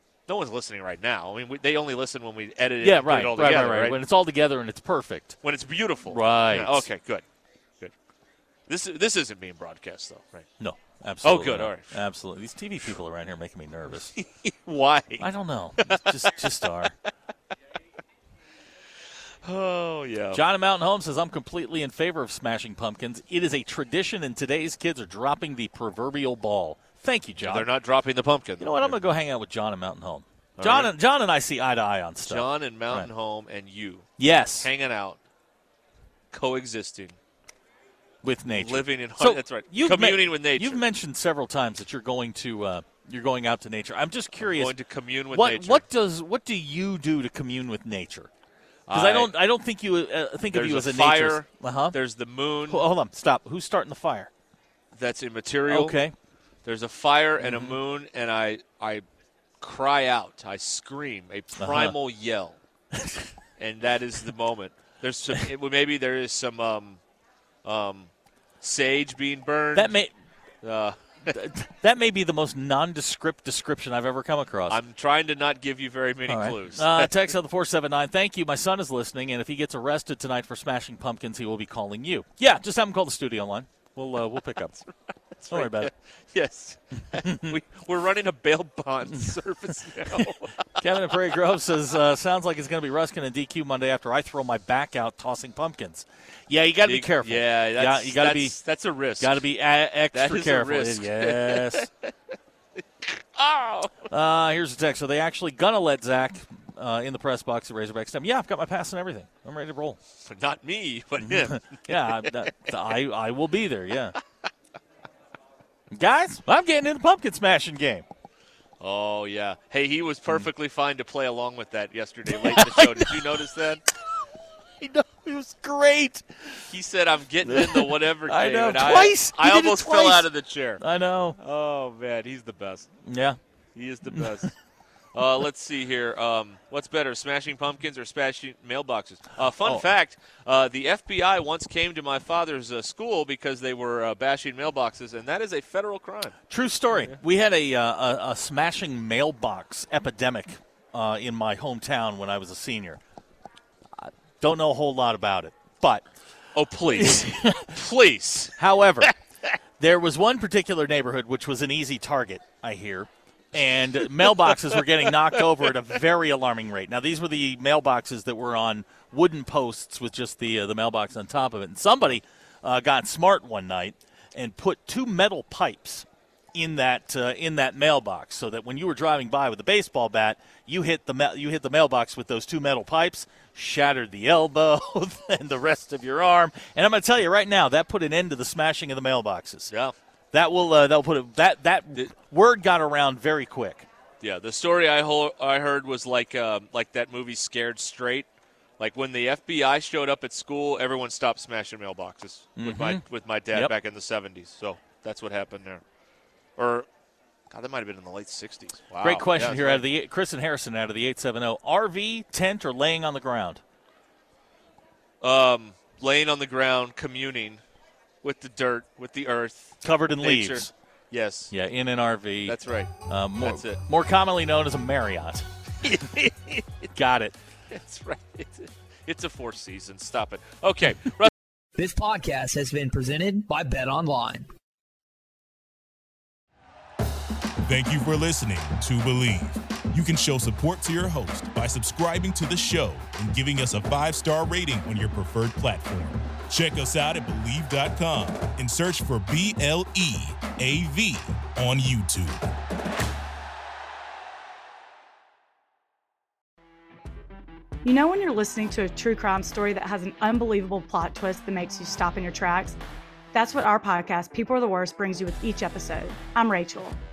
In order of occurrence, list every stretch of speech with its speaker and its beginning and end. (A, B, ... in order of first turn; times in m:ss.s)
0:00.3-0:04.0 A
0:02.8-0:05.4 B
0:05.4-0:07.2 A
0:06.1-0:06.9 B
0:08.7-0:10.5 A
0:10.6-0:14.1 B
0:11.2-0:12.0 A
0:14.2-0:15.3 A
0:15.2-0:16.9 B
0:15.8-0:16.7 A
0:19.4-0:20.4 A
0:20.3-0:27.7 B
0:27.4-0:29.0 A
0:28.6-0:33.1 B
0:30.6-0:30.9 A
0:32.2-0:35.2 A
0:34.2-0:34.7 B
0:36.3-0:37.2 A
0:38.2-0:44.7 B
0:38.5-0:40.8 A
0:44.4-0:45.8 A
0:45.3-0:48.3 B
0:48.9-0:49.3 A
0:48.9-0:52.0 B
0:50.5-0:52.8 A
0:52.7-0:54.3 B
0:54.9-0:56.0 A
0:55.7-0:56.1 B
0:56.6-0:59.0 A
0:57.4-0:57.8 B
0:59.6-1:02.6 A
1:01.6-1:02.0 B
1:03.0-1:03.3 B
1:03.6-1:07.0 A
1:07.6-1:08.1 A
1:08.6-1:09.9 A
1:09.7-1:10.1 B
1:10.6-1:11.3 A
1:11.3-1:14.8 B
1:14.7-1:17.1 A
1:16.3-1:24.8 B
1:25.4-1:30.8 A
1:25.5-1:25.9 B
1:27.1-1:27.6 B
1:30.1-1:38.6 B
1:36.8-1:39.4 A
1:39.2-1:41.9 B
1:40.1-1:42.1 A
1:43.3-1:44.1 A
1:44.1-1:50.0 B
1:50.2-1:52.3 A
1:51.2-1:54.2 B
1:55.9-1:58.1 B
1:58.8-2:03.8 A
2:02.3-2:03.4 B
2:04.8-2:06.7 B
2:06.7-2:10.8 A
2:07.4-2:10.3 B
2:10.8-2:11.4 B
2:11.4-2:12.9 A
2:13.0-2:13.4 B
2:13.8-2:14.5 A
2:14.1-2:14.5 B
2:15.1-2:26.4 A
2:19.6-2:19.8 B
2:26.5-2:33.0 B
2:34.0-2:36.1 B
2:36.5-2:39.1 A
2:37.0-2:37.7 B
2:38.6-2:39.1 B
2:39.8-3:09.7 B
2:44.2-2:45.4 A
3:09.7-3:09.9 A
3:10.3-3:13.9 B
3:14.2-3:18.3 A
3:18.8-3:25.8 A
3:22.6-3:23.7 B
3:26.6-3:26.9 A
3:27.5-3:29.8 A
3:29.0-3:33.6 B
3:35.2-3:37.6 A
3:38.2-3:41.5 A
3:39.8-3:40.7 B
3:41.5-3:42.6 B
3:42.4-3:43.8 A
3:43.1-3:45.4 B
3:45.8-3:46.9 A
3:46.9-3:47.4 B
3:47.7-3:51.3 A
3:51.8-3:54.5 C
3:57.6-4:12.4 D
4:17.8-4:22.8 E
4:23.3-4:27.0 E